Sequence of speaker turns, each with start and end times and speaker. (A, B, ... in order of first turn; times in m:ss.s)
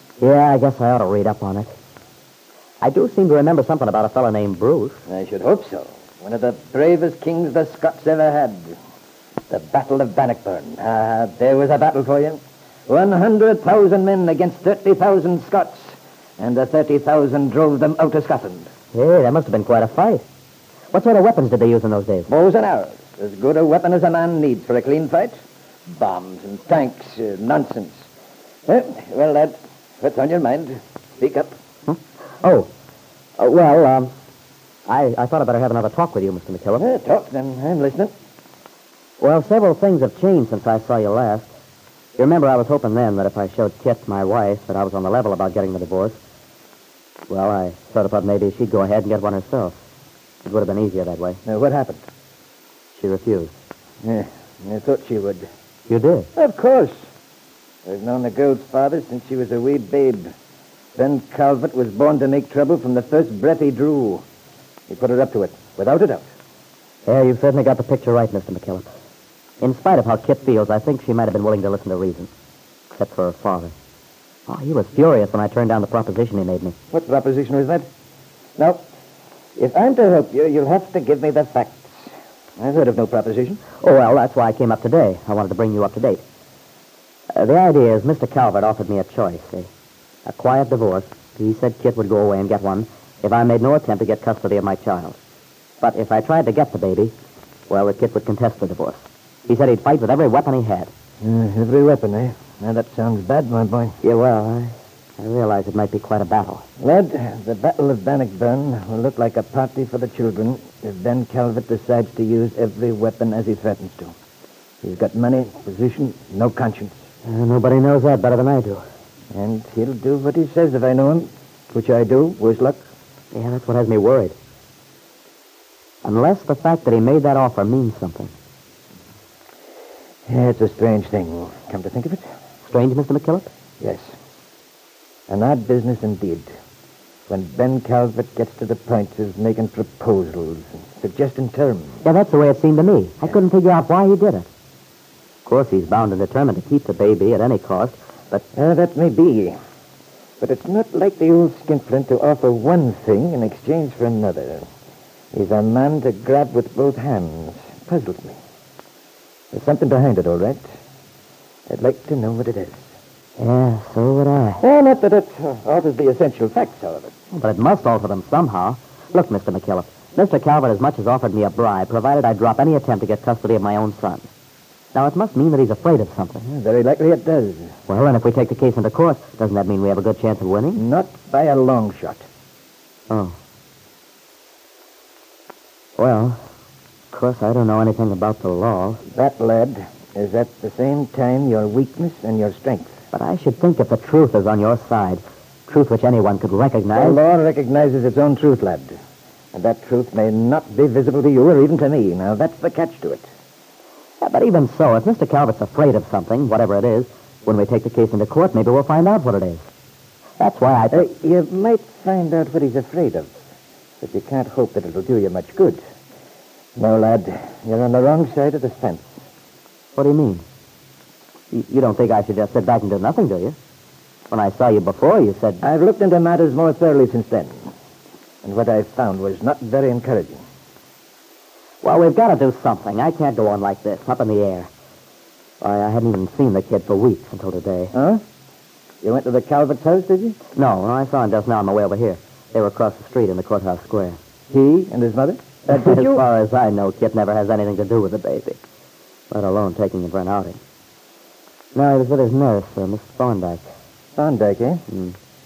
0:00.2-0:01.7 A
0:02.8-0:05.0 A
0:05.1-0:08.8 B
0:09.5-0:18.7 B
0:18.9-0:20.2 A
0:20.9-0:22.3 A
0:22.3-0:25.4 B
0:25.9-0:28.1 B
0:28.7-0:31.5 B
0:31.9-0:32.7 A
0:33.4-0:34.1 A
0:34.9-0:36.8 A
0:36.8-0:38.1 B
0:39.2-0:41.5 A
0:42.2-0:46.2 A
0:47.3-0:49.8 A
0:50.4-0:51.4 A
0:51.4-0:52.0 B
0:53.0-0:53.5 A
0:54.0-0:55.5 B
0:55.9-0:56.3 A
0:56.4-0:57.0 B
0:57.9-1:00.3 B
1:01.0-1:04.2 B
1:04.9-1:06.3 B
1:07.1-1:08.9 A
1:09.6-1:12.3 A
1:12.9-1:13.7 A
1:14.5-1:16.8 A
1:16.9-1:17.9 B
1:18.6-1:18.8 B
1:19.6-1:23.6 B
1:23.8-1:26.2 A
1:27.4-1:29.7 A
1:30.3-1:35.2 A
1:35.8-1:37.1 A
1:37.7-1:40.9 A
1:41.2-1:44.0 B
1:44.0-1:46.6 A
1:46.8-1:54.2 B
1:54.8-1:57.0 B
1:57.3-1:58.8 A
1:59.3-2:02.8 B
2:03.3-2:04.4 A
2:06.0-2:08.3 A
2:10.3-2:12.2 B
2:12.6-2:13.5 A
2:13.8-2:14.1 B
2:15.3-2:16.5 B
2:17.3-2:22.0 B
2:22.0-2:24.5 A
2:25.4-2:28.4 A
2:28.5-2:29.6 B
2:30.4-2:34.6 B
2:35.3-2:38.4 B
2:39.5-2:40.6 B
2:41.7-2:42.9 B
2:43.4-2:44.6 A
2:44.6-2:47.1 B
2:47.3-2:54.3 A
2:54.9-2:56.4 A
2:56.5-2:57.7 B
2:57.9-3:00.8 A
3:00.8-3:02.2 B
3:03.1-3:03.4 A
3:06.0-3:06.4 A
3:07.1-3:09.0 A
3:09.1-3:13.0 B
3:13.1-3:17.2 A
3:16.9-3:19.0 B
3:19.5-3:23.3 B
3:24.2-3:29.6 A
3:30.4-3:31.1 A
3:30.9-3:33.4 B
3:34.0-3:35.8 B
3:36.8-3:39.2 B
3:40.0-3:40.4 A
3:41.5-3:43.6 A
3:44.3-3:45.7 A
3:45.6-3:47.7 B
3:48.4-3:50.4 B
3:51.8-3:54.7 A
3:55.6-3:57.9 A
3:57.9-3:58.2 B
3:59.0-4:00.4 B
4:00.5-4:04.2 A
4:04.5-4:06.2 B
4:05.7-4:08.6 A
4:09.3-4:10.6 A
4:11.8-4:13.7 A
4:14.2-4:14.8 B
4:14.9-4:15.2 A